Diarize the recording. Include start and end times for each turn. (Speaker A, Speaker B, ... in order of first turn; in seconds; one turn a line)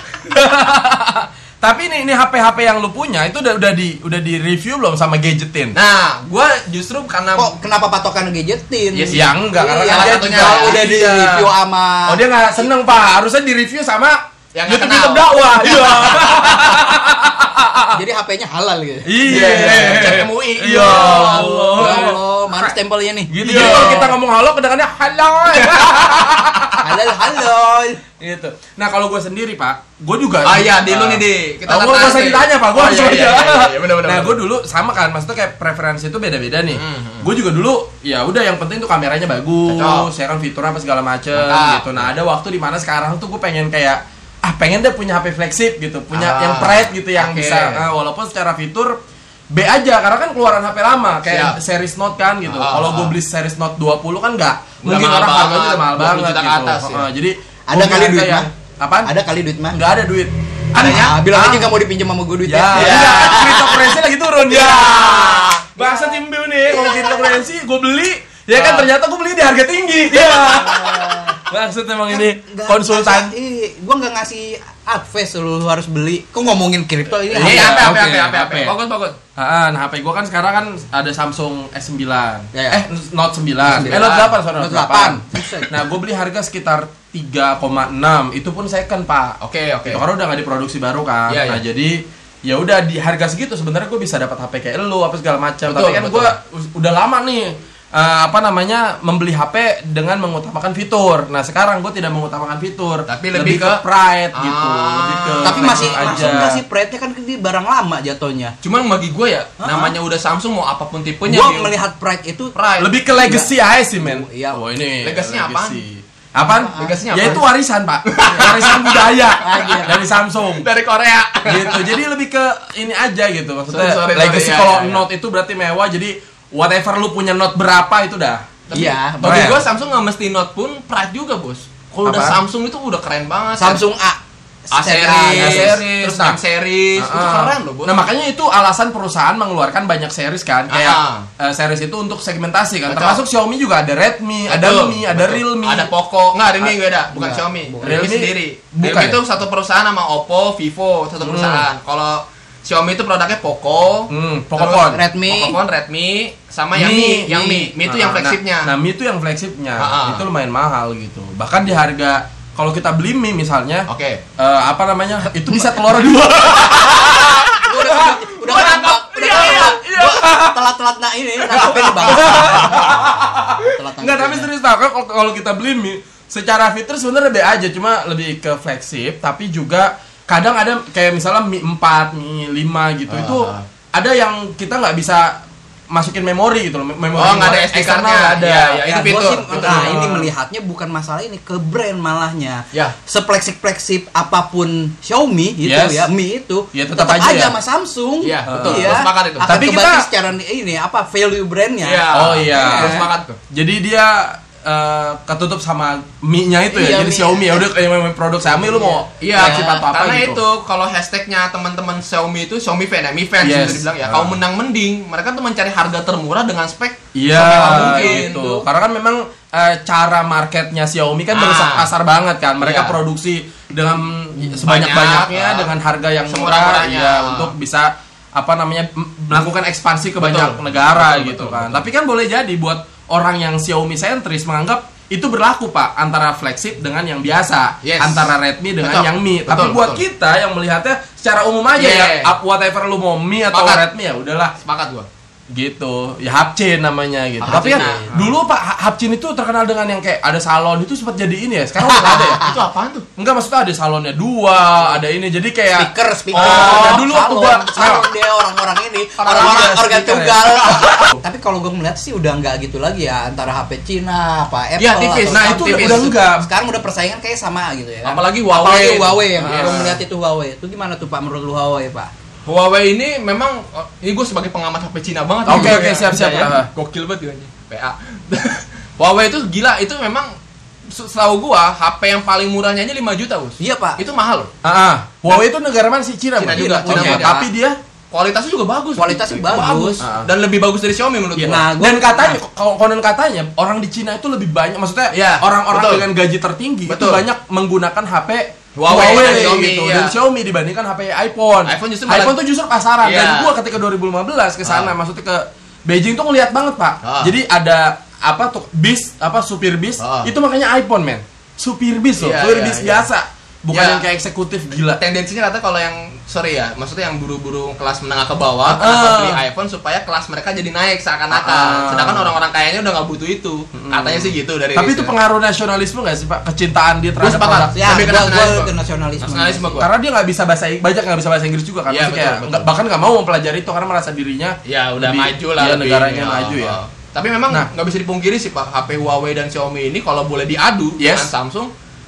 Speaker A: 0.3-5.8
Speaker B: 5.7-7.5
Speaker C: 7.4-12.7
Speaker B: 8.9-9.2
Speaker A: 9.1-11.5
Speaker B: 9.9-10.8
Speaker A: 12.1-17.9
Speaker B: 14.5-16.8
Speaker C: 17.9-20.1
Speaker A: 19.1-22.7
Speaker B: 19.2-22.1
Speaker C: 20.7-24.1
Speaker B: 23.3-24.1
Speaker A: 23.3-27.2
Speaker B: 25.5-26.8
Speaker C: 26.8-28.0
Speaker A: 28.2-49.0
Speaker B: 30.4-34.4
Speaker B: 36.7-37.3
Speaker B: 39.7-40.1
Speaker B: 41.4-42.1
Speaker B: 46.1-47.9
Speaker A: 49.5-59.1
Speaker B: 51.3-51.6
Speaker B: 52.5-53.1
Speaker B: 54.8-57.1
Speaker C: 57.7-58.5
Speaker C: 59.0-59.8
Speaker A: 59.7-61.7
Speaker C: 60.8-67.4
Speaker A: 62.5-73.3
Speaker B: 62.7-63.7
Speaker B: 68.5-68.9
Speaker C: 70.1-71.4
Speaker C: 72.1-78.0
Speaker B: 77.3-79.2
Speaker A: 77.3-78.7
Speaker A: 79.3-106.6
Speaker C: 82.5-82.8
Speaker C: 83.6-85.8
Speaker B: 83.8-84.4
Speaker B: 89.4-90.0
Speaker B: 91.3-91.6
Speaker B: 95.7-96.3
Speaker B: 103.1-103.8
Speaker B: 104.3-106.4
Speaker C: 105.4-108.5
Speaker B: 108.6-111.7
Speaker C: 109.6-109.9
Speaker C: 111.2-112.5
Speaker B: 112.5-112.9
Speaker A: 112.8-120.7
Speaker C: 113.1-114.6
Speaker B: 115.0-115.8
Speaker C: 116.4-117.4
Speaker B: 116.7-117.4
Speaker B: 118.0-122.0
Speaker C: 119.4-119.9
Speaker A: 121.5-128.4
Speaker B: 123.7-125.0
Speaker B: 128.7-133.8
Speaker C: 128.7-129.6
Speaker A: 129.2-129.6
Speaker A: 131.9-132.4
Speaker C: 133.6-134.2
Speaker C: 134.7-135.8
Speaker B: 134.7-138.1
Speaker A: 135.3-136.4
Speaker A: 136.9-145.9
Speaker B: 140.7-141.3
Speaker B: 142.8-143.2
Speaker B: 144.5-158.7
Speaker C: 146.7-148.1
Speaker A: 147.8-149.2
Speaker A: 151.2-151.7
Speaker A: 154.1-155.0
Speaker C: 154.9-155.6
Speaker A: 156.7-170.6
Speaker B: 159.8-160.2
Speaker B: 163.9-164.2
Speaker C: 165.5-165.8
Speaker C: 167.5-174.5
Speaker B: 168.5-169.7
Speaker A: 171.4-188.8
Speaker B: 172.1-172.8
Speaker B: 183.1-183.6
Speaker B: 187.1-190.0
Speaker C: 188.8-203.1
Speaker A: 189.5-190.3
Speaker A: 195.6-196.1
Speaker A: 196.7-197.6
Speaker B: 198.2-199.5
Speaker A: 198.5-200.1
Speaker B: 201.8-203.4
Speaker A: 202.1-210.4
Speaker C: 206.7-207.7
Speaker C: 208.5-209.8
Speaker B: 209.2-218.5
Speaker A: 213.4-214.4
Speaker A: 217.1-244.6
Speaker C: 217.4-218.6
Speaker B: 221.3-221.9
Speaker B: 222.6-223.0
Speaker B: 224.6-225.7
Speaker B: 226.3-227.5
Speaker B: 230.2-231.8
Speaker B: 237.8-240.0
Speaker B: 241.7-242.3
Speaker B: 243.5-243.8
Speaker B: 244.6-245.1
Speaker A: 245.5-252.4
Speaker B: 247.4-248.3
Speaker C: 247.4-248.1
Speaker C: 251.8-252.6
Speaker B: 251.8-253.1
Speaker A: 253.2-258.1
Speaker C: 255.7-272.1
Speaker B: 256.3-257.1
Speaker B: 259.2-259.8
Speaker A: 259.2-261.1
Speaker B: 260.5-261.2
Speaker B: 264.8-266.1
Speaker A: 265.3-266.5
Speaker B: 268.1-270.0
Speaker A: 269.4-270.0
Speaker B: 272.4-280.3
Speaker A: 275.4-276.7
Speaker C: 275.5-276.5
Speaker B: 280.9-284.5
Speaker C: 283.6-284.0
Speaker A: 284.6-287.8
Speaker B: 286.4-287.3
Speaker C: 286.5-287.5
Speaker B: 288.1-291.6
Speaker C: 289.0-290.0
Speaker A: 290.0-290.3
Speaker A: 291.4-315.0
Speaker C: 291.4-292.4
Speaker B: 295.1-296.1
Speaker B: 296.9-297.2
Speaker B: 298.8-300.1
Speaker C: 298.9-299.6
Speaker B: 301.6-302.4
Speaker B: 303.0-303.5
Speaker B: 304.6-304.9
Speaker B: 307.0-307.3
Speaker B: 310.0-310.3
Speaker B: 312.2-313.1
Speaker B: 313.7-314.1
Speaker B: 315.0-325.1
Speaker A: 318.6-319.4
Speaker A: 321.3-322.3
Speaker A: 323.7-327.8
Speaker B: 327.2-329.9
Speaker C: 327.7-329.8
Speaker A: 329.8-336.8
Speaker B: 331.9-332.7
Speaker B: 334.6-341.7
Speaker A: 341.0-341.3